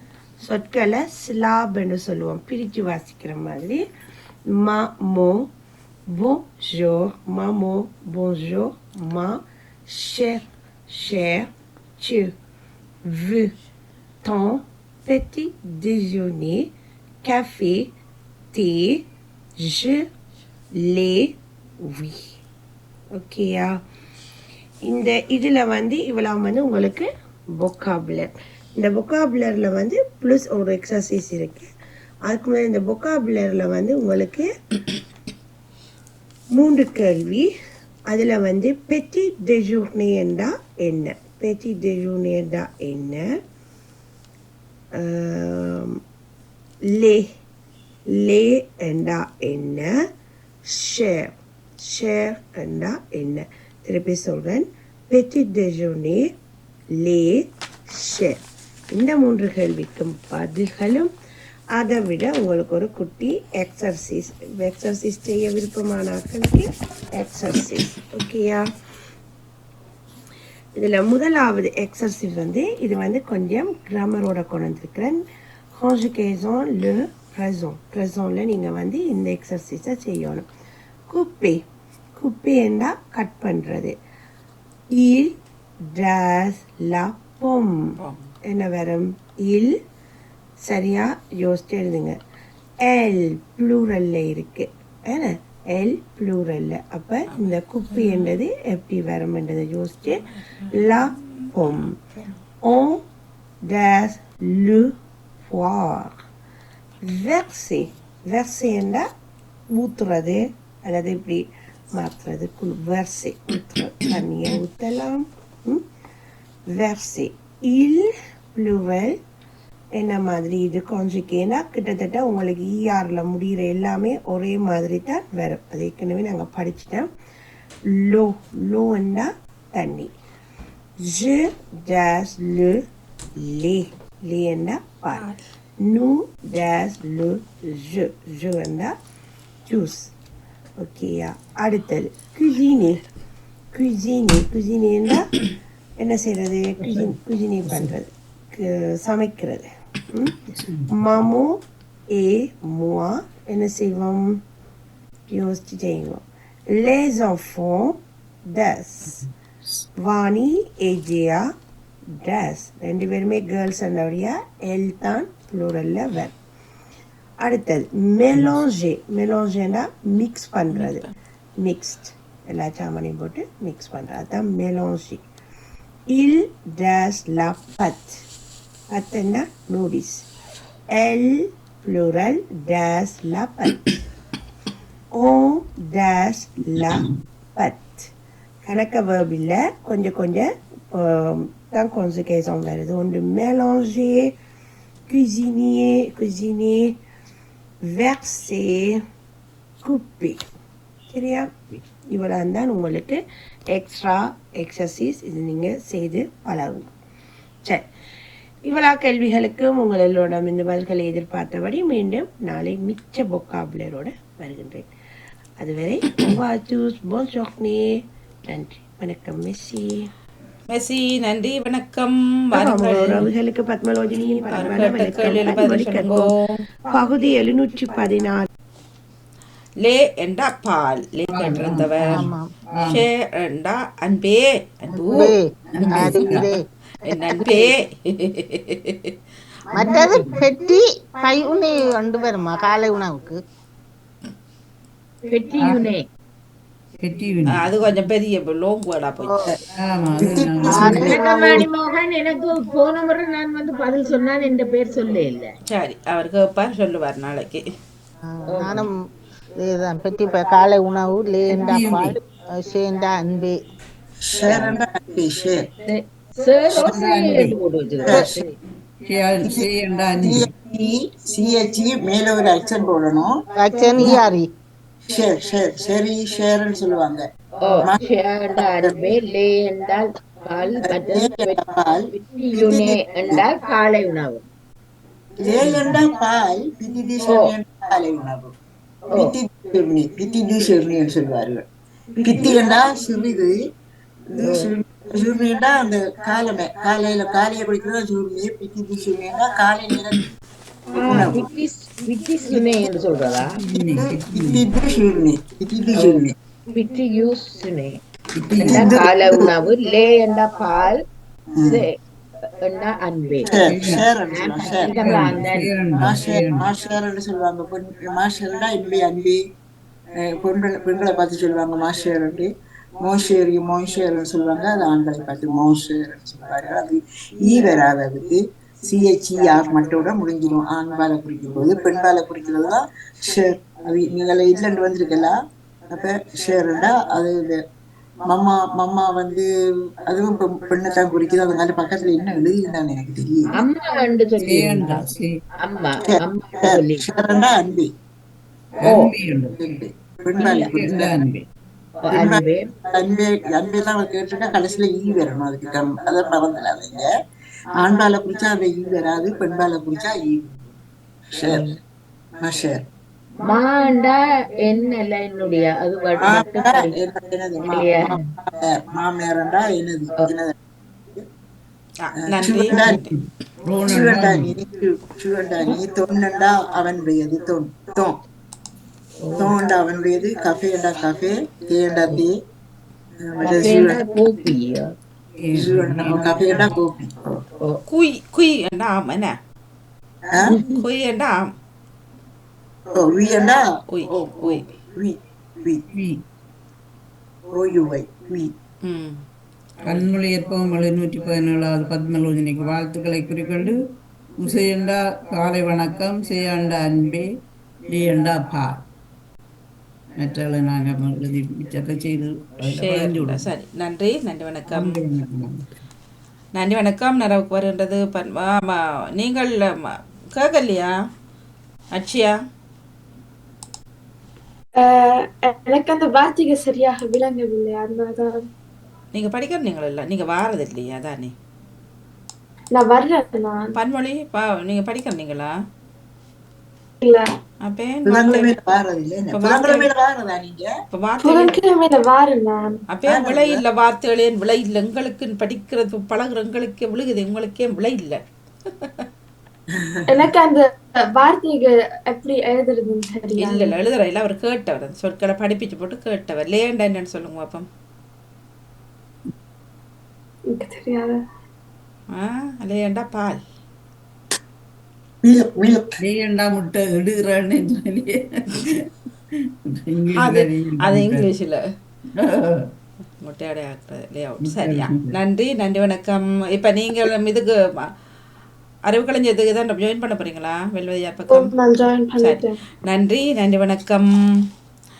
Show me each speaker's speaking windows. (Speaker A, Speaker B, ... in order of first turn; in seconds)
Speaker A: 0.4-3.8, 4.5-5.5, 6.1-11.5, 12.0-12.3, 13.1-13.5, 14.2-16.6, 17.2-17.9, 18.5-19.0, 19.6-20.0, 20.8-21.3, 21.8-22.2, 23.1-23.7, 24.9-27.1, 27.6-31.7, 32.3-34.5, 36.5-37.5, 38.1-43.2, 45.0-46.0, 46.9-47.2, 48.2-49.9, 50.6-56.2, 57.0-58.4, 58.9-61.1, 61.8-68.7, 70.8-80.5, 81.1-81.6, 82.2-83.9, 84.9-87.9, 88.5-89.7, 90.6-92.2, 92.8-102.0, 102.6-103.0, 103.7-104.9, 105.4-106.1, 107.0-109.0, 109.7-115.8, 116.7-119.2, 120.0-127.1, 127.9-130.1, 131.0-132.8, 133.4-135.3, 135.8-138.9, 139.7-140.1, 140.8-143.0, 143.7-145.3, 146.0-151.6, 152.1-154.4, 155.3-159.3, 160.0-161.5, 162.2-166.3, 167.4-171.0, 171.6-175.2, 176.1-178.2, 178.9-180.3, 180.9-183.9, 185.1-188.1, 188.6-194.3, 195.1-196.9, 197.8-199.0, 199.8-200.4, 201.1-203.2, 203.7-206.9, 208.7-214.9, 215.6-220.1, 222.5-226.3, 226.9-228.5
Speaker B: 88.0-88.3, 97.3-98.2, 100.6-101.5, 170.7-171.1, 220.7-223.3, 224.5-226.6, 229.8-232.2, 232.9-235.3, 237.1-239.1, 247.5-249.5, 255.7-257.6, 372.0-373.1, 387.9-389.3, 390.6-391.5, 393.9-394.6, 398.8-399.2, 412.7-415.0, 416.6-420.9, 421.9-422.4, 429.1-431.3, 433.7-435.5, 437.6-438.5, 439.3-439.9, 440.9-441.6, 442.9-448.2, 453.4-457.7, 462.1-463.4, 470.2-471.6, 473.2-477.5, 478.9-481.5, 482.2-484.1
Speaker C: 231.3-233.0, 235.7-236.5, 245.6-245.9, 247.0-247.7, 249.7-251.2, 261.5-262.2, 266.7-267.6, 269.1-270.5, 303.5-304.6, 308.4-309.1, 313.6-314.1, 314.9-316.7, 344.4-345.4, 348.8-349.6, 350.4-351.4, 372.8-374.5, 385.4-386.7, 395.9-396.2, 399.8-403.8, 404.4-407.2, 407.9-408.8, 410.1-413.5, 414.7-415.6, 466.0-468.8, 469.9-471.3, 472.1-472.7, 474.4-475.1
Speaker D: 231.4-231.7, 239.7-240.4, 245.3-246.0, 250.7-255.5, 258.6-258.8, 265.9-268.5, 273.9-274.2, 277.6-284.4, 287.2-287.5, 294.4-294.7, 301.0-303.5, 305.9-308.0, 308.7-311.0, 311.6-312.0, 312.6-313.6, 314.2-315.7, 343.5-345.0, 345.6-347.0, 348.8-349.1, 352.0-352.7, 363.4-366.9, 367.6-368.2, 379.2-379.6, 383.4-384.9
Speaker E: 232.1-232.5, 234.9-237.7, 239.7-243.4, 249.2-249.5, 250.7-251.7, 258.2-258.9, 259.6-263.6, 264.5-264.7, 273.5-274.5
Speaker F: 250.2-251.2, 264.3-265.6, 266.7-267.0, 269.4-269.6, 270.2-273.4, 275.1-277.2, 280.8-282.0, 282.5-283.4, 285.4-288.5, 289.1-291.6, 292.2-293.5, 294.3-300.2, 301.0-301.3, 302.5-303.1, 303.7-306.3, 308.5-309.5, 311.6-311.8, 313.5-315.0, 315.9-319.4, 320.2-322.5, 323.0-335.3, 335.9-337.6, 338.2-339.4, 340.0-343.5, 346.0-347.9, 349.6-351.1, 352.1-357.1, 357.7-360.5, 361.4-361.7, 362.4-362.8, 366.2-370.5, 372.3-373.0, 373.8-378.2, 379.4-382.3, 383.2-384.0, 385.5-387.4, 392.9-395.8, 397.5-398.5, 438.1-440.7, 443.1-443.6, 465.2-465.8
Speaker G: 301.0-301.4, 424.8-428.4, 432.7-433.7, 441.2-442.8, 450.1-453.7, 460.5-461.2, 481.3-482.6